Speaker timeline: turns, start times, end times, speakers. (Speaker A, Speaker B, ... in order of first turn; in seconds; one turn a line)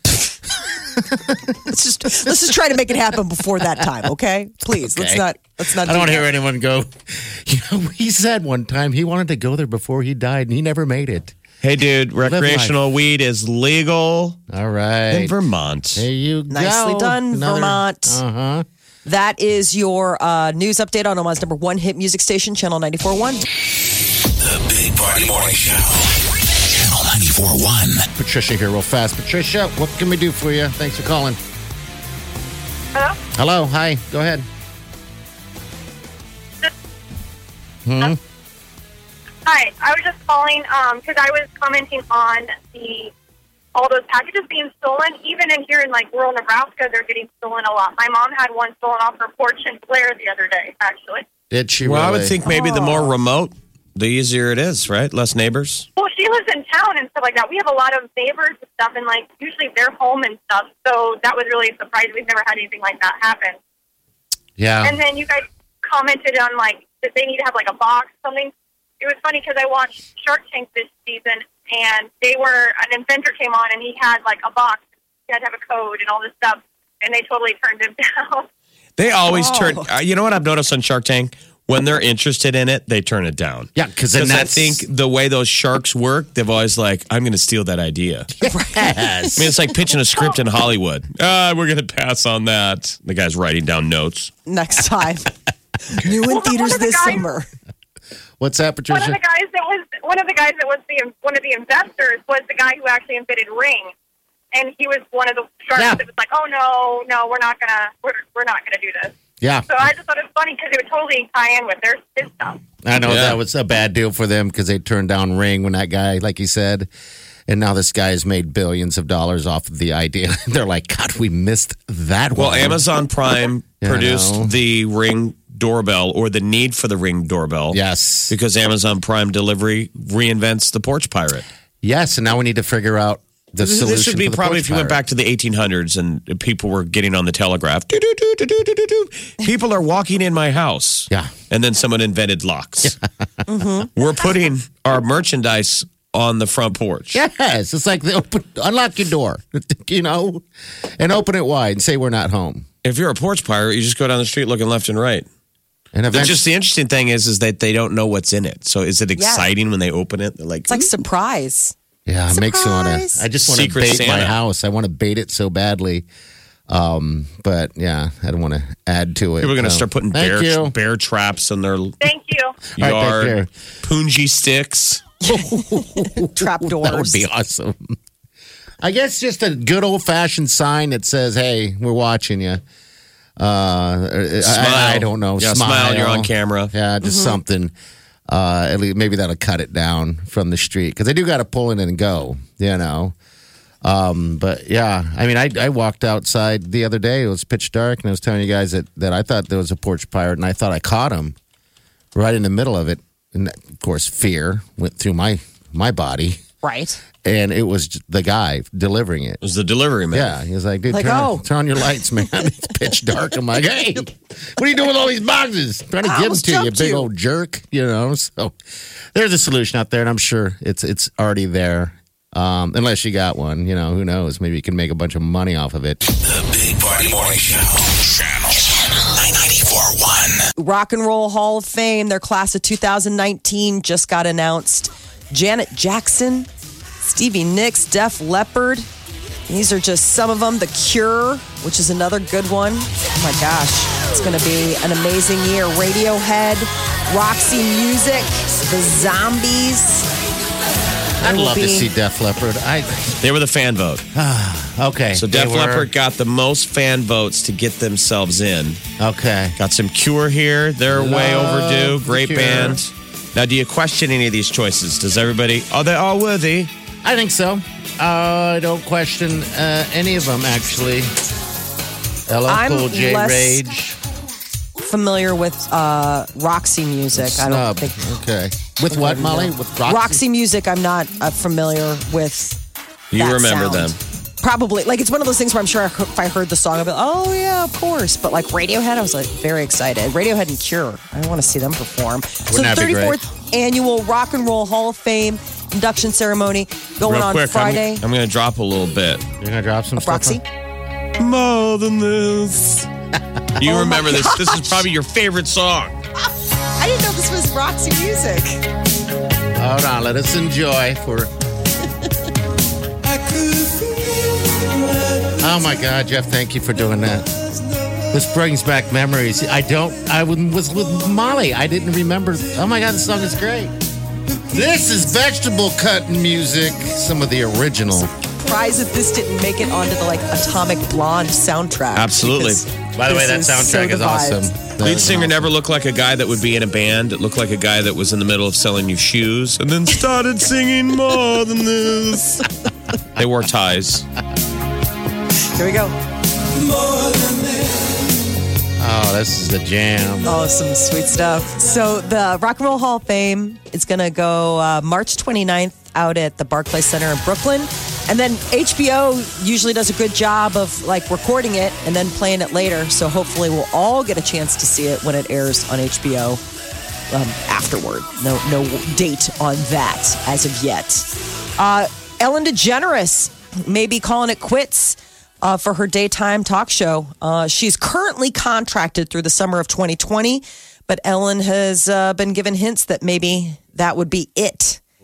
Speaker A: 0.9-1.6
Speaker B: 1.7-6.3
Speaker A: 4.7-5.2
Speaker A: 5.8-11.3
Speaker C: 11.6-14.4
Speaker A: 12.2-12.7
Speaker A: 14.5-15.3
Speaker C: 15.1-16.1
Speaker A: 15.9-18.6
Speaker B: 16.5-18.2
Speaker B: 19.0-23.4
Speaker D: 24.3-28.1
Speaker A: 28.1-31.4
Speaker E: 32.9-33.2
Speaker A: 33.3-34.5
Speaker A: 37.8-38.2
Speaker E: 39.5-43.1
Speaker E: 43.7-51.2
Speaker A: 51.5-52.3
Speaker C: 51.8-55.9
Speaker B: 52.4-53.1
Speaker E: 56.0-63.6
Speaker A: 64.6-65.0
Speaker E: 64.8-78.5
Speaker C: 79.0-88.3
Speaker B: 79.2-79.9
Speaker A: 83.8-84.8
Speaker A: 88.4-89.5
Speaker B: 88.5-89.3
Speaker C: 89.3-94.3
Speaker B: 94.5-95.3
Speaker B: 95.8-97.5
Speaker E: 96.3-97.2
Speaker A: 98.4-99.2
Speaker E: 98.9-103.9
Speaker E: 104.5-109.1
Speaker A: 105.7-106.0
Speaker A: 109.4-109.9
Speaker E: 109.7-112.6
Speaker A: 112.8-116.9
Speaker C: 113.0-113.4
Speaker A: 117.5-122.8
Speaker C: 122.4-131.4
Speaker A: 123.8-124.5
Speaker A: 127.7-128.3
Speaker A: 131.8-135.0
Speaker C: 133.6-143.0
Speaker B: 143.5-143.9
Speaker C: 143.9-147.2
Speaker A: 147.1-150.4
Speaker A: 151.0-152.7
Speaker C: 152.8-155.2
Speaker A: 155.9-156.4
Speaker C: 156.1-160.9
Speaker B: 159.2-159.5
Speaker B: 160.7-161.7
Speaker A: 162.1-166.1
Speaker B: 162.3-163.2
Speaker C: 163.4-164.3
Speaker A: 166.7-170.7
Speaker C: 169.4-172.0
Speaker E: 172.0-172.6
Speaker A: 172.8-173.5
Speaker C: 172.8-175.0
Speaker B: 175.2-177.2
Speaker A: 175.3-178.0
Speaker A: 178.8-182.6
Speaker A: 183.4-187.7
Speaker C: 184.4-186.7
Speaker B: 187.0-187.4
Speaker A: 188.3-193.1
Speaker A: 193.8-201.3
Speaker A: 202.1-206.4
Speaker B: 206.6-207.0
Speaker A: 207.2-209.4
Speaker C: 209.4-210.3
Speaker A: 210.1-218.6
Speaker B: 210.9-211.4
Speaker B: 216.0-217.1
Speaker A: 219.1-226.0
Speaker D: 226.1-230.5
Speaker B: 230.6-236.5
Speaker B: 237.0-238.9
Speaker B: 239.5-250.1
Speaker A: 251.2-253.1
Speaker B: 251.2-251.9
Speaker C: 253.2-254.0
Speaker A: 254.1-255.9
Speaker C: 255.1-258.8
Speaker A: 259.0-259.6
Speaker C: 259.6-266.7
Speaker A: 260.9-262.8
Speaker A: 267.0-271.1
Speaker A: 272.3-274.0
Speaker B: 272.5-273.6
Speaker B: 274.8-278.0
Speaker A: 277.1-280.2
Speaker B: 278.9-282.6
Speaker C: 283.1-284.0
Speaker B: 283.1-298.0
Speaker A: 292.5-293.2
Speaker C: 297.1-299.2
Speaker A: 299.4-300.4
Speaker B: 300.0-300.4
Speaker C: 301.2-302.9
Speaker C: 303.6-306.0
Speaker B: 303.6-304.8
Speaker B: 306.8-308.6
Speaker A: 309.6-311.3
Speaker A: 315.4-317.3
Speaker A: 318.1-323.8
Speaker A: 324.4-328.1
Speaker B: 328.4-334.5
Speaker C: 331.9-332.6
Speaker A: 332.9-335.5
Speaker C: 334.8-342.5
Speaker C: 343.1-344.1
Speaker B: 345.5-345.9
Speaker B: 346.8-347.5
Speaker A: 348.8-350.3
Speaker B: 350.2-366.4
Speaker B: 367.1-384.8